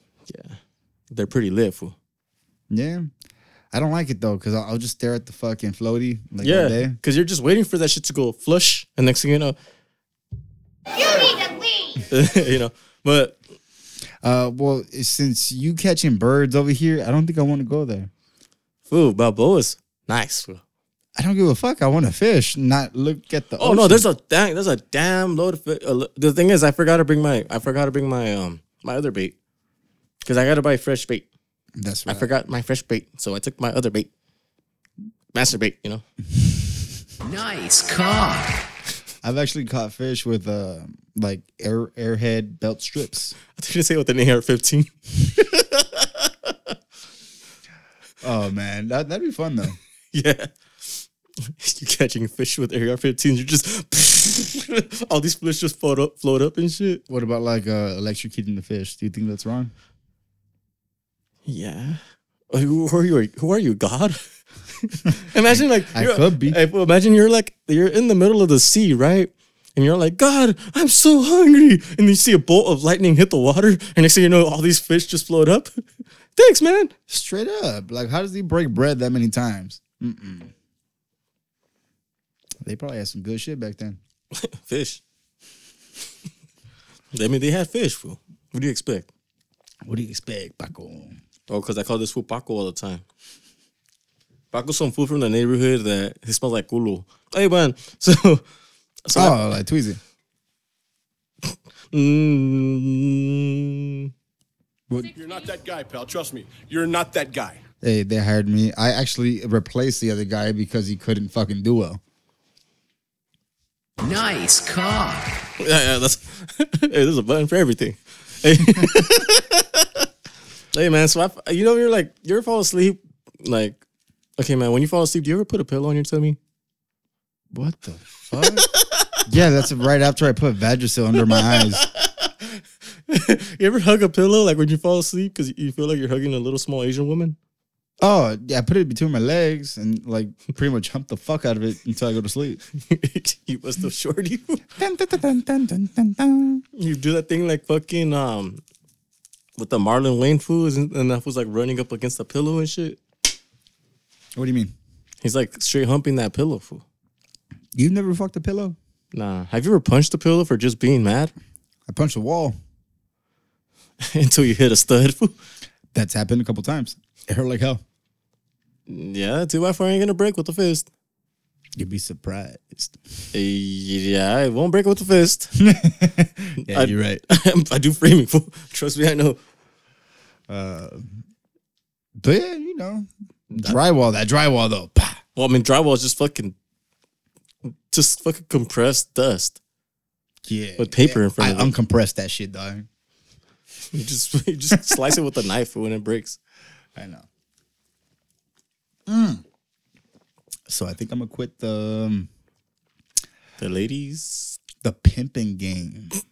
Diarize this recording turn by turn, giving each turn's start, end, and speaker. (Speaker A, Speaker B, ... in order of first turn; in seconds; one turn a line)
Speaker A: 0.3-0.6
Speaker A: 1.1-2.0
Speaker B: 2.7-3.1
Speaker B: 3.7-7.0
Speaker A: 6.4-9.6
Speaker A: 12.1-13.4
Speaker B: 14.2-18.1
Speaker A: 18.9-20.6
Speaker B: 21.2-24.0
Speaker A: 23.6-29.4
Speaker A: 30.2-31.3
Speaker B: 31.8-32.4
Speaker A: 32.1-34.1
Speaker A: 35.3-36.0
Speaker B: 36.4-36.8
Speaker C: 37.2-38.6
Speaker B: 39.2-43.4
Speaker A: 43.5-46.7
Speaker B: 48.2-49.8
Speaker A: 50.1-50.5
Speaker A: 51.6-57.0
Speaker B: 57.1-59.7
Speaker A: 61.5-62.0
Speaker A: 62.5-64.2
Speaker A: 64.8-75.7
Speaker B: 65.5-66.6
Speaker A: 76.4-76.9
Speaker B: 77.1-80.5
Speaker B: 82.6-84.0
Speaker A: 84.3-85.0
Speaker A: 87.1-89.1
Speaker B: 89.8-91.2
Speaker A: 91.5-93.0
Speaker A: 94.5-98.4
Speaker A: 99.1-99.4
Speaker B: 99.1-100.0
Speaker A: 101.5-104.1
Speaker D: 105.1-107.6
Speaker B: 107.8-112.0
Speaker C: 114.0-115.3
Speaker A: 115.6-120.1
Speaker A: 120.7-123.8
Speaker A: 124.4-126.4
Speaker B: 127.5-128.7
Speaker A: 128.3-129.1
Speaker B: 129.3-131.8
Speaker A: 131.2-137.4
Speaker B: 138.0-142.6
Speaker A: 142.8-144.6
Speaker B: 144.8-146.6
Speaker A: 146.8-148.6
Speaker A: 149.6-153.0
Speaker B: 154.3-154.7
Speaker A: 155.2-156.8
Speaker B: 157.8-158.8
Speaker A: 159.1-161.3
Speaker B: 161.9-162.6
Speaker A: 164.0-165.4
Speaker B: 165.9-167.8
Speaker A: 168.9-170.9
Speaker B: 171.8-173.0
Speaker A: 173.3-175.5
Speaker B: 175.6-177.2
Speaker A: 176.6-179.4
Speaker B: 180.5-181.2
Speaker B: 182.2-185.2
Speaker A: 183.5-183.8
Speaker A: 185.4-186.6
Speaker A: 187.9-189.6
Speaker B: 190.4-192.9
Speaker A: 190.8-191.7
Speaker A: 193.9-196.4
Speaker B: 194.7-195.2
Speaker B: 197.0-197.3
Speaker B: 199.1-199.4
Speaker B: 200.7-202.3
Speaker A: 203.6-204.6
Speaker B: 204.8-206.1